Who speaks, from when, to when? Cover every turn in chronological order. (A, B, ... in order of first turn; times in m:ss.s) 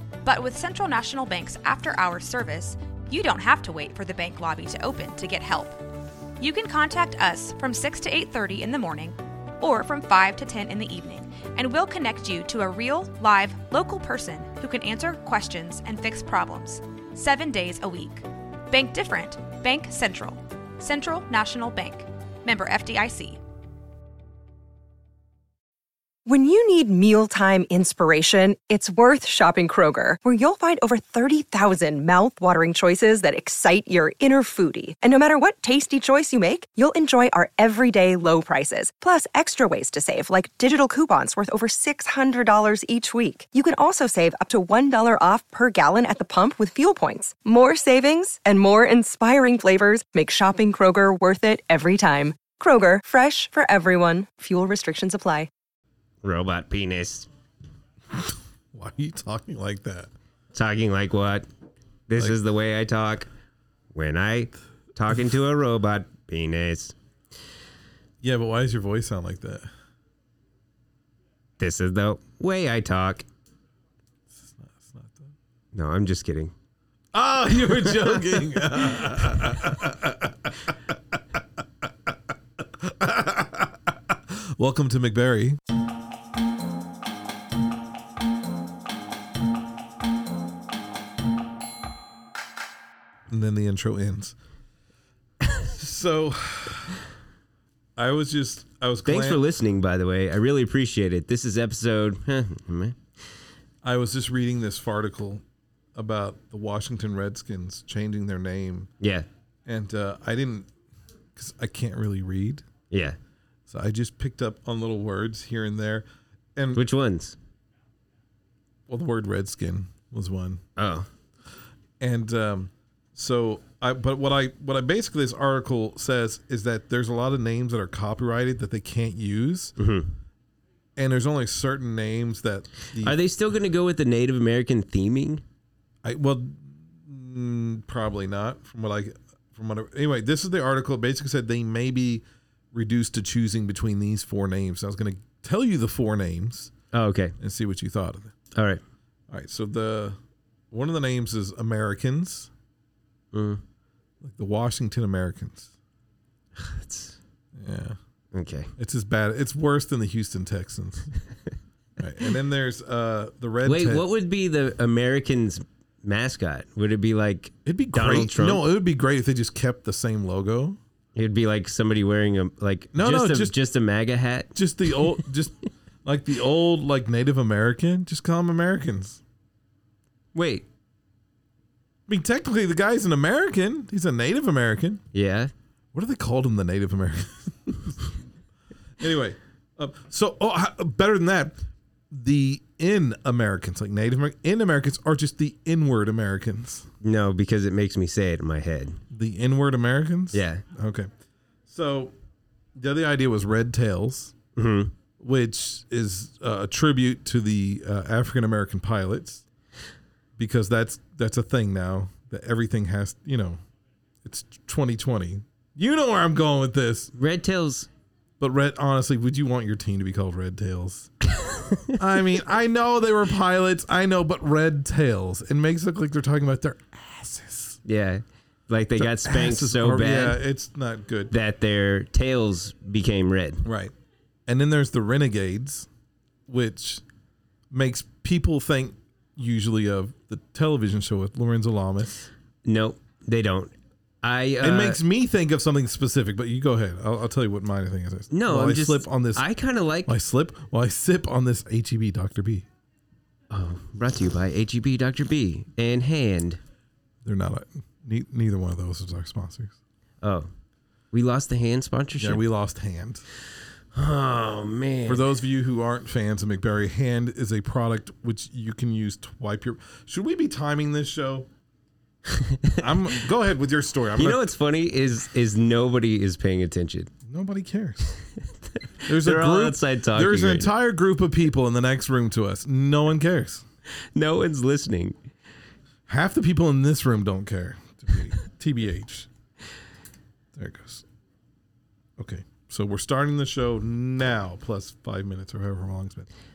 0:00.2-0:05.8 A
0:06.4-0:23.4 A
0:26.3-0:55.5 B
0:56.2-0:57.3 C
0:58.2-1:00.1 D
1:00.5-1:01.5 C
1:02.1-1:03.3 C
1:03.9-1:06.9 C
1:08.2-1:09.7 D
1:11.6-1:13.2 C
1:14.3-1:15.3 D
1:15.7-1:16.5 C
1:17.1-1:20.7 D
1:17.8-1:18.2 C
1:19.0-1:19.5 C
1:22.6-1:25.6 D
1:33.3-1:34.4 D
1:35.5-1:37.0 D
1:38.0-1:39.4 D
1:39.0-1:43.0 C
1:43.8-1:45.4 D
1:46.0-1:48.9 D
1:49.0-1:49.3 C
1:49.7-1:50.7 D
1:51.4-1:52.6 D
1:52.9-1:53.2 C
1:53.7-1:56.8 D
1:56.8-1:57.4 C
1:58.9-2:00.6 D
2:00.8-2:01.1 C
2:02.0-2:09.8 D
2:09.8-2:10.1 C
2:11.0-2:13.2 D
2:13.0-2:15.4 C
2:16.0-2:26.7 D
2:26.9-2:27.4 C
2:27.4-2:28.3 D
2:28.6-2:28.8 C
2:29.3-2:30.2 D
2:30.7-2:32.5 D
2:33.3-2:33.6 C
2:34.2-2:35.7 D
2:36.6-2:37.2 C
2:37.6-2:38.0 D
2:38.3-2:38.7 C
2:38.8-2:41.1 D
2:42.0-2:44.1 D
2:43.6-2:48.6 C
2:47.7-2:50.8 D
2:51.2-2:55.1 C
2:52.9-2:53.6 D
2:54.6-2:59.2 D
3:00.4-3:00.6 C
3:02.1-3:05.0 D
3:05.1-3:05.5 C
3:05.9-3:08.0 D
3:09.0-3:11.6 D
3:12.1-3:16.9 D
3:17.0-3:19.0 C
3:19.1-3:21.1 D
3:20.3-3:20.6 C
3:21.7-3:22.1 D
3:22.8-3:24.4 D
3:24.6-3:24.9 C
3:25.2-3:29.4 D
3:30.4-3:33.6 D
3:34.2-3:37.1 D
3:37.2-3:37.9 C
3:38.4-3:41.1 D
3:41.9-3:47.8 D
3:47.8-3:50.4 C
3:49.0-3:51.4 D
3:51.3-3:53.6 C
3:53.6-3:53.9 D
3:54.5-3:55.9 D
3:56.5-3:57.0 D
3:57.7-4:02.3 D
4:02.6-4:05.0 C
4:04.6-4:09.5 D
4:08.3-4:10.1 C
4:10.1-4:12.7 D
4:13.5-4:16.6 C
4:17.2-4:19.8 D
4:20.2-4:20.5 C
4:21.1-4:22.4 C
4:22.2-4:23.2 D
4:23.9-4:25.3 C
4:25.1-4:31.5 D
4:32.3-4:32.8 C
4:32.8-4:34.5 D
4:34.2-4:37.1 C
4:37.3-4:38.2 D
4:39.1-4:43.6 D
4:39.1-4:40.7 C
4:44.2-4:45.2 C
4:46.1-4:49.3 D
4:50.5-4:51.0 D
4:52.2-4:56.3 D